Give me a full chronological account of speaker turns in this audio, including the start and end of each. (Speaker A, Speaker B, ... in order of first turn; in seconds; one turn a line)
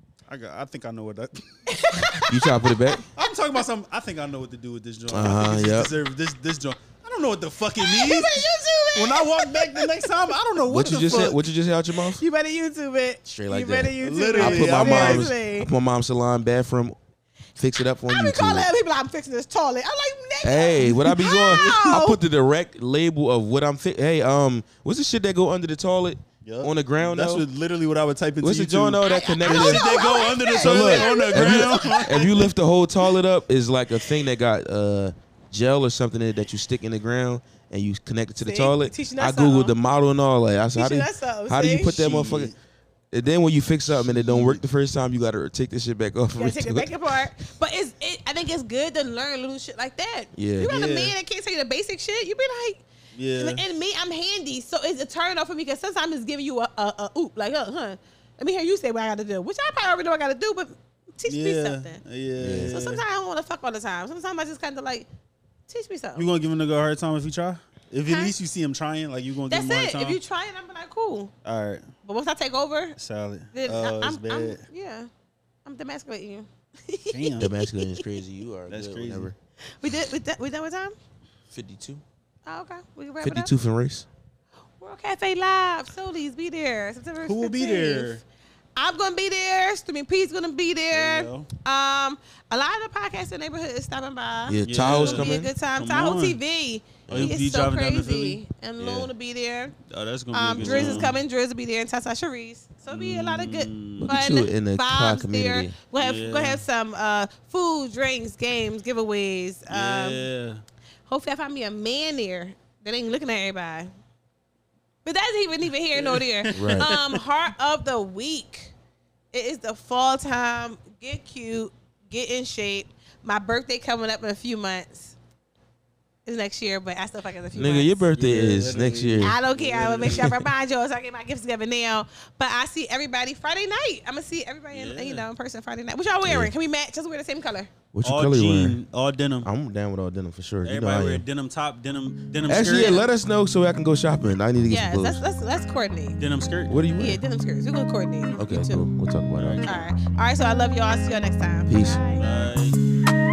Speaker A: 0.3-2.1
Speaker B: 1.7-3.0
Speaker C: 2.2-3.0
Speaker A: 3.1-11.4
Speaker C: 5.1-6.0
Speaker B: 7.8-10.3
Speaker C: 10.6-12.2
Speaker B: 12.2-15.7
Speaker C: 13.3-16.9
Speaker A: 14.0-15.3
Speaker C: 17.6-18.7
Speaker B: 18.1-22.2
Speaker C: 20.4-27.4
Speaker A: 21.5-21.9
Speaker A: 26.4-32.5
Speaker C: 28.4-42.5
Speaker B: 29.0-32.2
Speaker B: 38.4-39.7
Speaker B: 40.7-42.0
Speaker A: 41.9-42.5
Speaker C: 43.1-46.9
Speaker A: 44.0-44.6
Speaker B: 46.3-52.8
Speaker C: 50.3-50.7
Speaker A: 50.7-51.1
Speaker A: 53.1-53.6
Speaker B: 53.4-62.0
Speaker A: 61.3-63.0
Speaker C: 62.4-62.8
Speaker B: 62.7-65.1
Speaker B: 65.7-66.3
Speaker A: 66.2-70.2
Speaker B: 68.0-68.3
Speaker B: 69.5-71.3
Speaker A: 71.4-71.9
Speaker B: 72.0-73.0
Speaker A: 73.0-74.6
Speaker B: 73.5-75.1
Speaker B: 75.6-78.1
Speaker A: 77.1-77.5
Speaker C: 77.4-79.3
Speaker A: 78.7-79.3
Speaker B: 79.7-81.0
Speaker C: 81.5-82.0
Speaker B: 82.5-83.5
Speaker C: 83.2-84.1
Speaker B: 84.8-88.2
Speaker A: 87.2-88.2
Speaker B: 88.8-99.7
Speaker A: 90.9-91.5
Speaker C: 94.5-95.5
Speaker A: 94.7-96.4
Speaker A: 97.1-99.1
Speaker C: 97.1-97.4
Speaker A: 99.8-101.2
Speaker B: 100.3-110.2
Speaker C: 100.5-101.1
Speaker A: 102.9-104.2
Speaker C: 104.0-105.8
Speaker A: 106.0-106.6
Speaker A: 109.7-110.6
Speaker B: 111.1-113.9
Speaker B: 115.0-118.7
Speaker A: 115.9-117.2
Speaker C: 116.5-116.9
Speaker B: 119.3-125.2
Speaker B: 126.2-128.1
Speaker C: 127.5-129.4
Speaker A: 128.2-130.3
Speaker B: 129.2-137.7
Speaker C: 130.0-130.3
Speaker A: 134.7-135.3
Speaker C: 136.2-136.5
Speaker C: 137.9-138.8
Speaker A: 138.0-139.5
Speaker C: 139.4-141.2
Speaker A: 140.6-143.0
Speaker C: 142.5-145.2
Speaker B: 142.7-143.0
Speaker B: 144.7-146.2
Speaker A: 146.2-146.7
Speaker C: 146.7-147.2
Speaker B: 146.9-148.8
Speaker C: 148.4-149.8
Speaker A: 149.4-149.8
Speaker B: 149.6-152.2
Speaker C: 151.7-152.1
Speaker A: 152.2-152.8